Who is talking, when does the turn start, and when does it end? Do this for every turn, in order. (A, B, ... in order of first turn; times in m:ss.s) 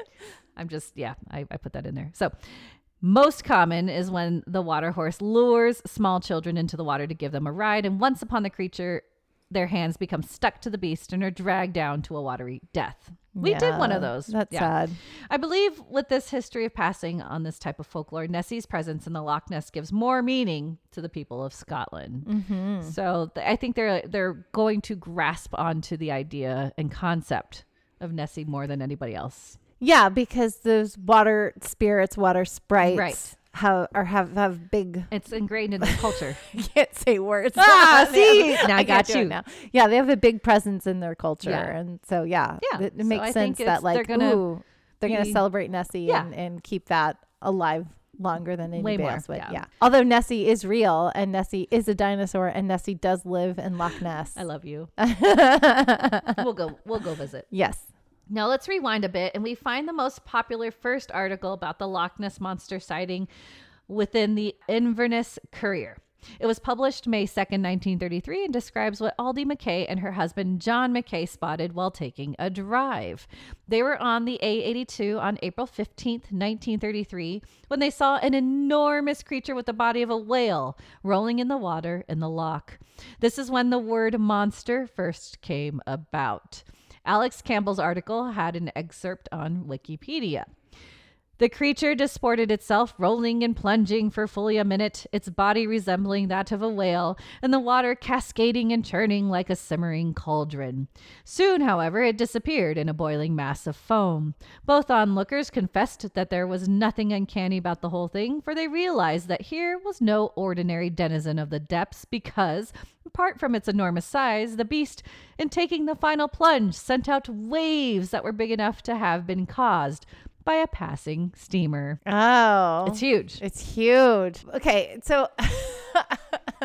0:00.6-0:02.3 A
0:03.0-0:14.7 A
0:13.4-0:15.0 B
0:15.3-0:22.3 A
0:22.2-0:22.9 B
0:22.8-0:29.6 A
0:29.8-0:35.1 B
0:32.8-0:33.3 A
0:35.1-0:36.4 A
0:35.8-0:54.4 B
0:37.6-0:39.4 A
0:41.4-0:41.7 A
0:42.6-0:44.4 A
0:45.0-0:45.4 A
0:48.8-0:49.6 A
0:54.4-0:54.9 A
0:55.0-0:56.4 B
0:56.4-0:57.5 A
0:57.5-0:57.9 B
0:58.3-1:03.3 A
1:03.9-1:30.5 A
1:31.4-2:02.0 A
2:02.0-2:06.4 B
2:02.8-2:03.4 A